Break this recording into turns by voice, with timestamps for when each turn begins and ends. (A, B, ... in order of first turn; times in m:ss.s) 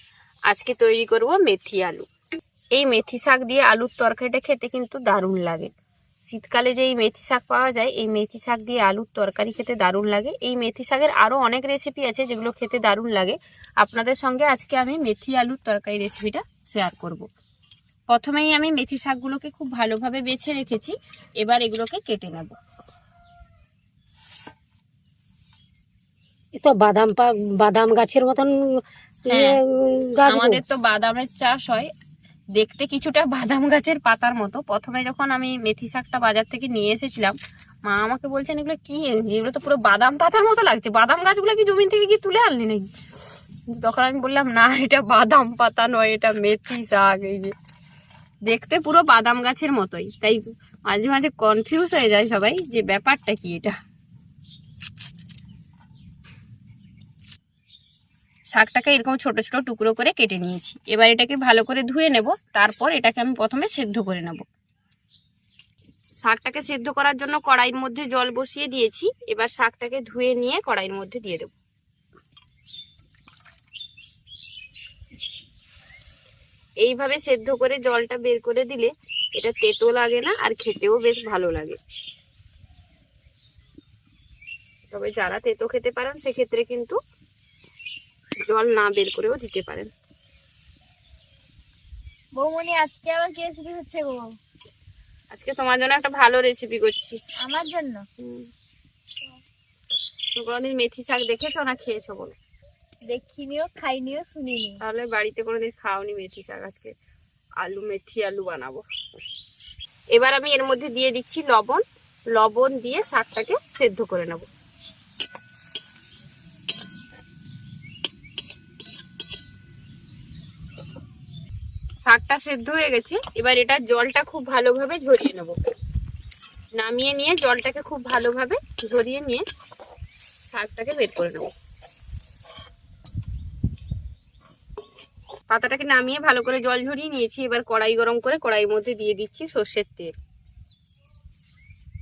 0:00.5-0:02.1 A
0:02.7-0:05.7 A
0:06.2-0:17.3 A
0:18.1-0:22.6 A
0:26.6-0:28.5 B
0:29.2-0:30.6 B
0:29.3-0:29.6 A
0:30.2-0:31.9 A
0:32.6-0:42.9 A
0:43.7-0:47.5 A
0:48.5-0:53.7 A
0:58.5-1:04.4 A
1:06.2-1:11.5 A
1:16.8-1:21.8 A
1:24.9-1:26.9 A
1:28.5-1:29.9 A
1:32.4-1:34.2 C
1:35.3-1:37.2 A
1:37.4-1:38.0 C
1:38.2-1:38.5 A
1:40.4-1:42.3 A
1:43.1-1:44.8 C
1:44.8-1:46.9 A
1:47.6-1:48.8 A
1:50.1-1:51.8 A
1:52.3-1:54.5 A
2:02.1-2:05.5 A
2:06.8-2:09.4 A
2:10.5-2:11.5 A
2:15.5-2:20.1 A